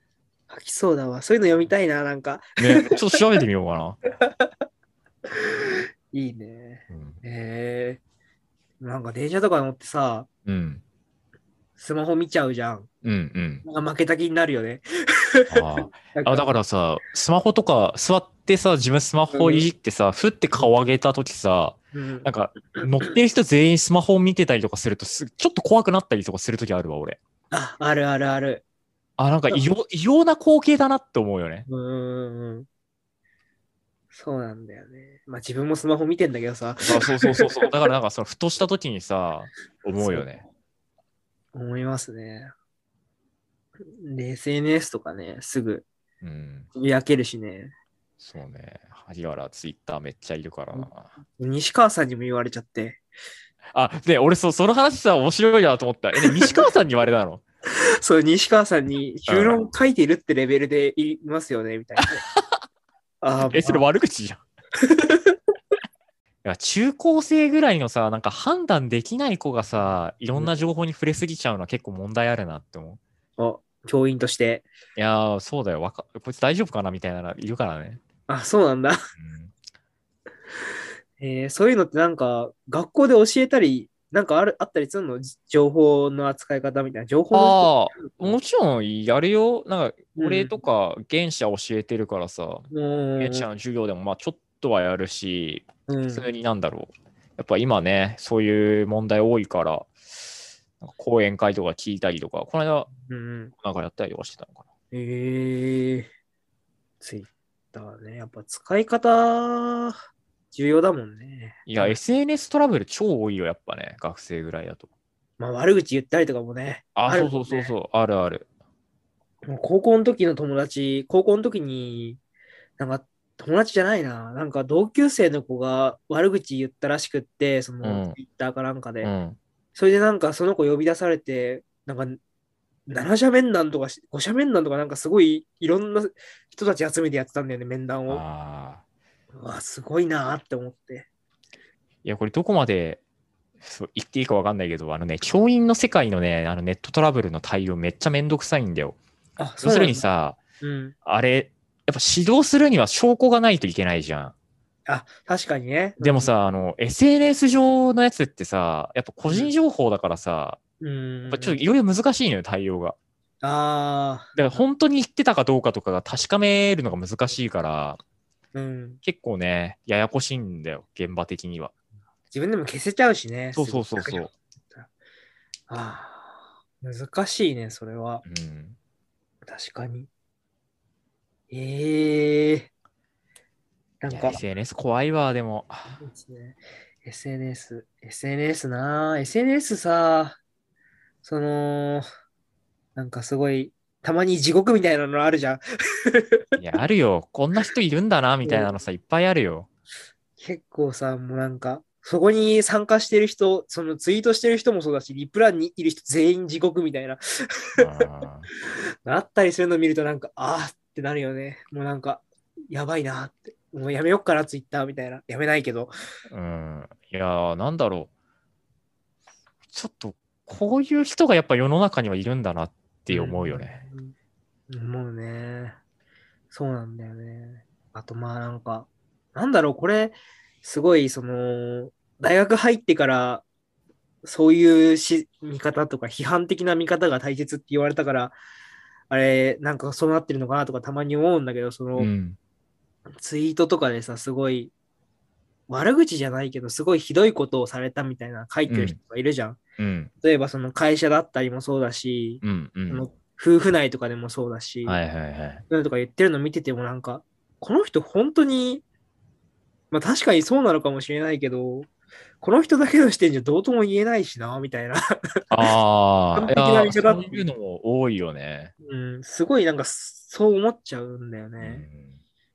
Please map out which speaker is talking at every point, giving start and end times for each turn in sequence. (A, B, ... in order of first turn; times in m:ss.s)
0:00.5-0:03.0 A
0:02.6-0:04.0 B
0:05.3-0:08.0 A
0:06.9-0:07.2 B
0:08.8-0:10.3 A
0:10.4-0:10.8 B
0:11.8-0:12.9 A
0:13.0-0:13.6 B
0:13.6-0:16.5 A
0:15.5-0:27.2 B
0:19.3-0:19.7 A
0:21.9-0:23.2 A
0:27.5-0:28.6 A
0:29.2-0:31.7 B
0:31.7-0:32.7 A
0:34.1-0:37.7 A
0:36.8-0:40.4 B
0:40.0-0:40.4 A
0:41.5-0:42.5 A
0:43.9-0:45.9 A
0:46.2-0:46.7 B
0:46.7-0:47.7 A
0:48.2-0:51.1 B
0:50.7-0:53.0 A
0:53.7-0:57.4 B
0:56.2-0:56.7 A
0:58.0-1:02.2 A
0:59.3-0:59.6 B
1:02.0-1:02.6 B
1:03.2-1:03.8 A
1:03.5-1:04.4 B
1:04.8-1:05.4 A
1:06.4-1:13.0 B
1:13.4-1:14.7 A
1:15.0-1:18.0 B
1:18.3-1:19.0 A
1:19.2-1:19.5 B
1:21.2-1:28.4 A
1:27.3-1:32.7 B
1:30.1-1:30.6 A
1:32.7-1:33.5 A
1:33.2-1:42.9 B
1:35.9-1:36.3 A
1:43.0-1:43.5 A
1:43.6-1:44.6 B
1:44.9-1:46.1 A
1:47.0-1:50.0 A
1:50.5-1:52.0 A
1:51.6-1:54.9 B
1:55.4-1:57.7 A
1:57.0-1:58.4 B
1:59.4-2:02.2 A
2:02.8-2:09.1 A
2:07.8-2:08.2 B
2:09.0-2:09.4 B
2:09.7-2:12.2 A
2:12.9-2:18.2 A
2:18.1-2:18.8 B
2:19.3-2:21.1 A
2:22.0-2:23.0 B
2:23.6-2:29.0 B
2:29.4-2:30.0 A
2:29.6-2:30.4 B
2:30.6-2:30.9 A
2:31.0-2:34.3 B
2:34.9-2:36.3 A
2:36.0-2:40.6 B
2:39.2-2:39.5 A
2:40.8-2:41.6 A
2:41.3-2:43.0 B
2:43.4-2:44.6 A
2:44.3-2:48.0 B
2:48.5-2:49.0 A
2:49.0-2:51.7 B
2:52.3-2:54.9 A
2:53.5-2:54.3 B
2:55.7-2:58.2 A
2:58.2-2:58.8 B
2:59.4-3:00.1 A
3:01.5-3:02.7 A
3:04.0-3:04.4 A
3:04.1-3:06.0 B
3:05.9-3:10.4 A
3:11.2-3:12.0 A
3:13.0-3:16.4 A
3:16.6-3:19.7 B
3:18.4-3:18.7 A
3:20.4-3:27.8 A
3:27.8-3:28.5 B
3:29.0-3:35.9 A
3:36.3-3:38.1 B
3:39.7-3:43.8 B
3:43.1-3:44.1 A
3:44.7-3:45.8 A
3:46.5-3:53.4 A
3:54.2-3:58.4 A
3:59.1-4:02.1 A
4:02.0-4:02.4 B
4:03.1-4:04.7 A
4:05.7-4:09.6 A
4:08.7-4:09.0 B
4:09.8-4:10.1 B
4:10.2-4:15.0 A
4:12.4-4:13.1 B
4:14.8-4:15.6 B
4:15.7-4:18.8 A
4:19.9-4:21.9 A
4:22.4-4:25.0 A
4:25.5-4:28.7 B
4:26.3-4:27.4 A
4:28.8-4:31.8 A
4:31.6-4:32.2 B